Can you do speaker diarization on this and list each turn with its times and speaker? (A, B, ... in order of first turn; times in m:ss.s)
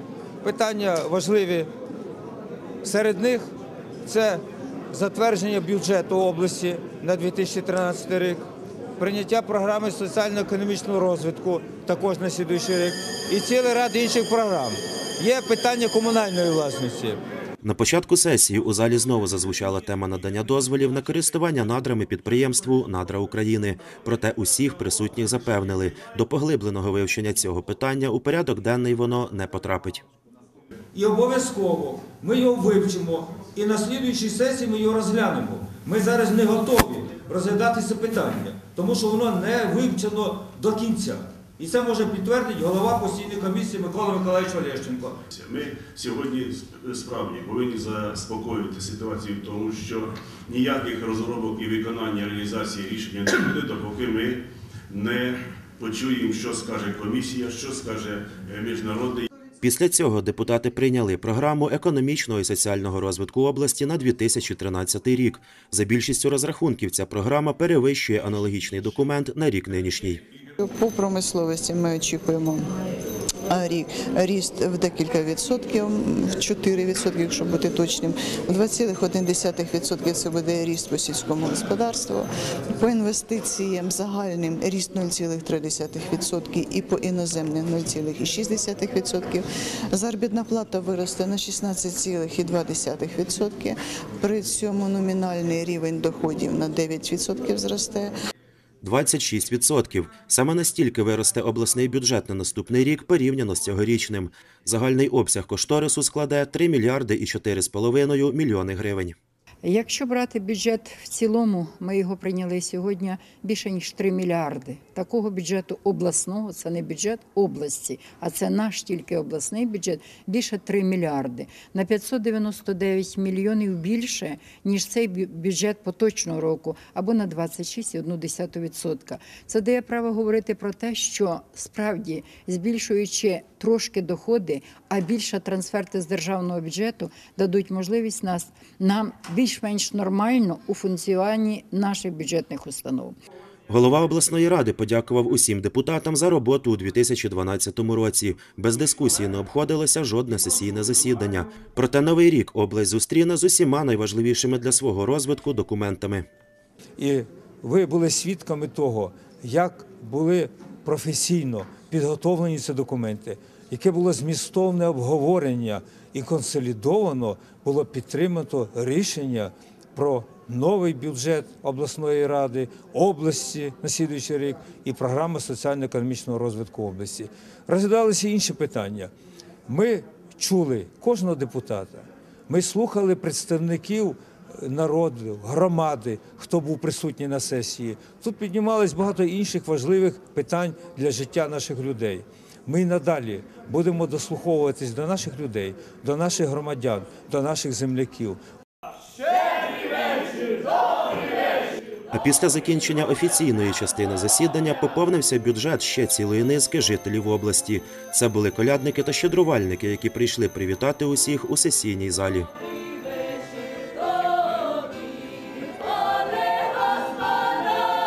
0:00.4-0:01.7 A
0:02.8-0:03.5 A
0:04.1-0:08.4 A
0:09.0-0:17.2 A
0:17.6-0:30.0 B
0:30.9-0:45.2 A
0:45.3-0:59.3 C
0:59.6-1:10.2 B
1:10.6-1:12.7 D
1:13.5-1:38.1 D
1:38.8-1:49.2 B
1:49.6-2:23.2 E
2:23.7-2:36.3 B
2:37.0-2:59.1 A
2:59.7-3:18.4 A
3:22.1-3:32.5 B